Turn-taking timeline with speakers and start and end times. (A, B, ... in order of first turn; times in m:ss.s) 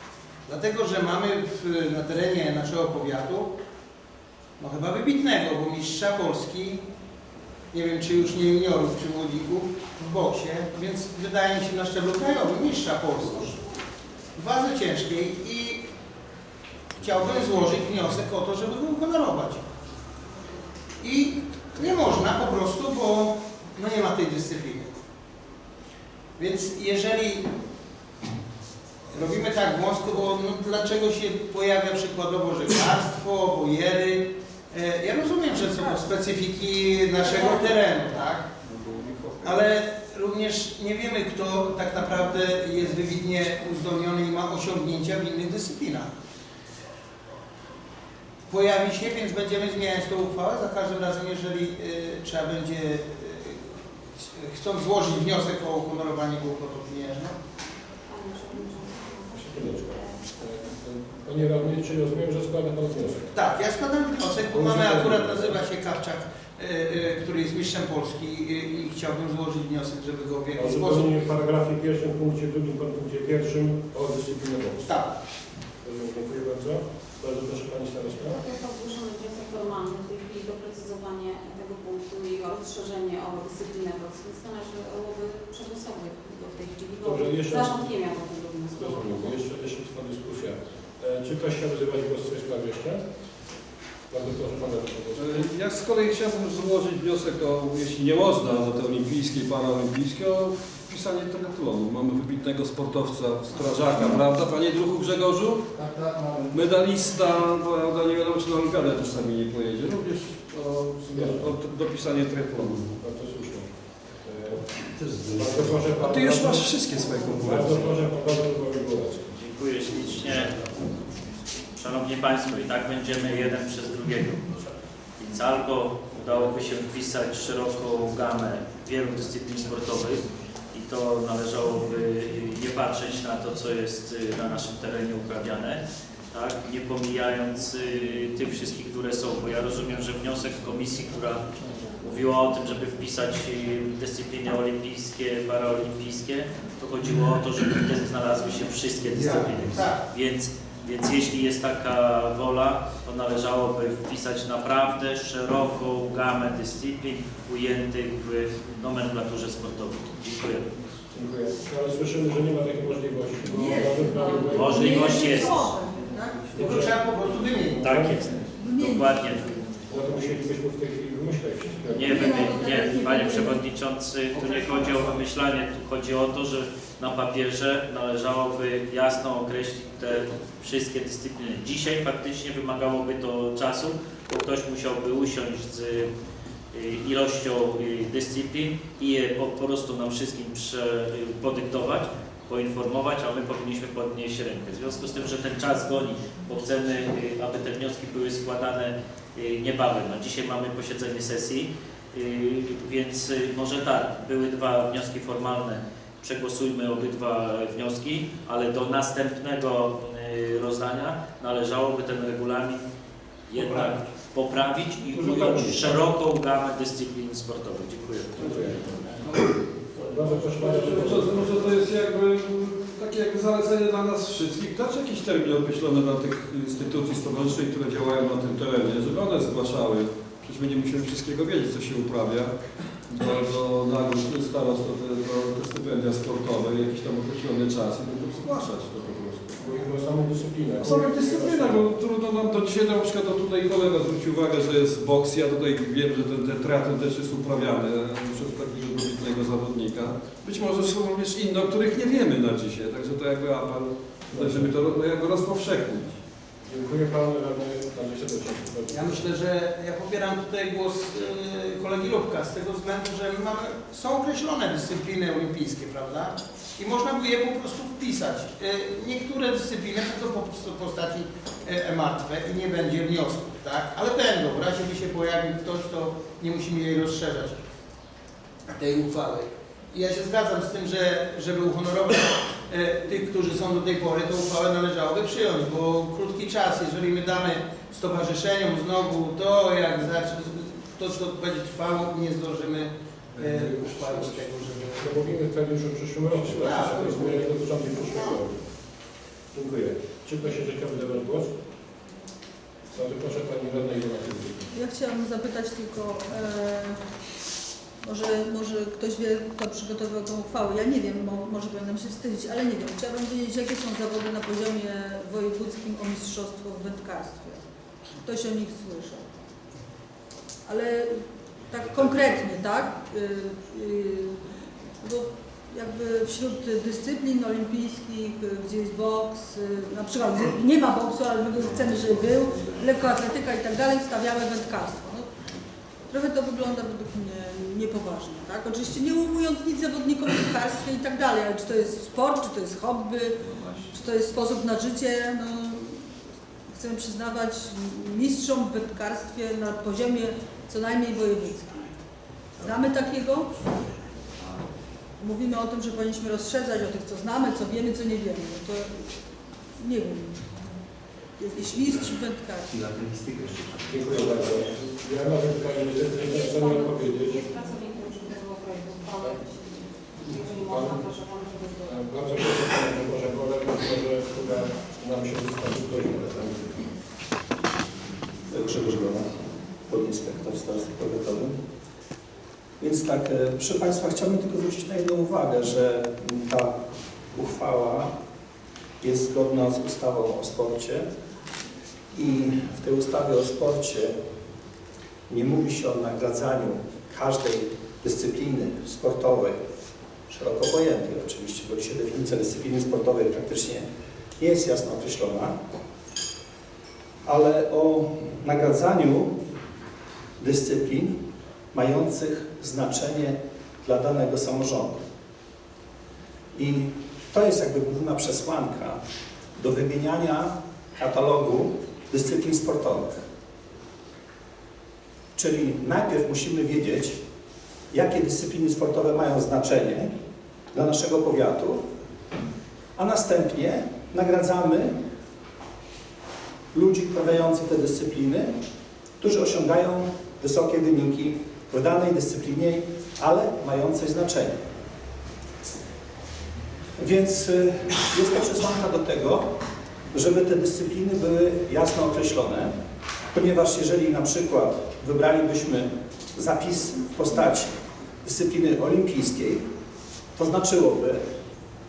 0:00.5-0:03.5 A
0:04.6-0:06.8 A
0:07.7-0:13.6 A
0:14.4-0:15.8 A
0:17.0-0:19.6 A
0:21.0-0:24.9 A
0:26.4-0:27.5 A
0:29.1-0:38.4 A
0:38.6-0:39.6 B
0:39.4-0:46.1 A
0:48.5-0:53.6 A
0:54.2-0:57.4 A
0:58.1-1:00.2 C
0:59.3-1:03.3 D
1:03.4-1:11.1 A
1:04.5-1:05.6 D
1:10.5-1:15.0 D
1:14.8-1:15.2 A
1:15.8-1:18.4 D
1:18.3-1:29.3 C
1:27.0-1:27.9 D
1:28.7-1:33.0 D
1:34.1-1:35.5 D
1:35.2-1:45.7 B
1:46.5-1:52.9 B
1:51.1-1:51.5 D
1:52.8-1:53.7 D
1:54.2-1:54.6 D
1:55.2-1:56.8 D
1:56.0-1:57.9 B
1:57.4-1:59.3 D
1:59.4-2:00.6 E
2:01.8-2:21.4 E
2:22.0-2:40.7 E
2:29.1-2:30.0 A
2:41.1-2:45.0 D
2:43.6-2:46.5 F
2:44.4-2:45.7 E
2:46.5-2:47.0 D
2:46.5-2:47.8 A
2:47.6-2:48.3 D
2:47.8-2:49.6 E
2:48.6-2:49.2 F
2:49.8-2:52.4 D
2:51.9-3:06.1 E
2:52.1-2:53.6 F
3:06.7-3:32.8 E
3:33.5-3:38.7 E
3:33.5-3:33.9 A
3:35.1-3:35.9 D
3:38.4-3:38.8 D
3:40.0-3:41.7 D
3:40.6-3:52.5 B
3:53.1-3:59.5 B
3:59.5-4:01.8 D
4:00.8-4:16.2 B
4:14.3-4:14.7 D
4:16.7-4:19.2 D
4:18.9-4:37.6 A
4:38.7-4:55.1 A
4:55.0-4:58.6 D
4:56.6-4:57.5 A
4:58.1-4:58.3 A
4:59.5-5:01.5 D
5:02.9-5:04.7 D
5:04.7-5:07.0 F
5:08.0-5:17.6 F
5:18.2-5:19.2 F
5:20.7-5:24.4 F
5:25.0-5:35.3 F
5:36.1-5:43.4 F
5:43.9-5:46.0 F
5:46.7-5:51.9 F
5:52.6-5:53.6 F
5:55.2-5:59.1 F
5:59.8-6:00.5 F
6:01.4-6:02.8 F
6:03.9-6:07.4 D
6:06.3-6:11.9 C
6:10.2-6:11.1 D
6:11.8-6:16.9 D
6:18.5-6:19.3 G
6:19.9-6:21.6 G
6:22.8-6:26.7 G
6:27.4-6:28.1 G
6:29.0-6:31.1 G
6:32.1-6:34.2 G
6:35.3-6:39.6 G
6:40.3-6:43.9 G
6:44.4-6:45.6 G
6:47.2-6:49.4 G
6:50.4-6:51.1 G
6:51.7-6:55.0 G
6:56.6-6:59.0 G
6:59.6-7:03.2 G
7:05.4-7:07.2 G
7:07.9-7:10.1 G
7:10.7-7:11.8 G
7:13.0-7:14.9 G
7:16.7-7:18.5 G
7:19.2-7:24.6 G
7:27.0-7:29.5 G
7:30.1-7:32.7 G
7:33.3-7:37.7 G
7:38.2-7:39.6 G
7:40.4-7:41.2 G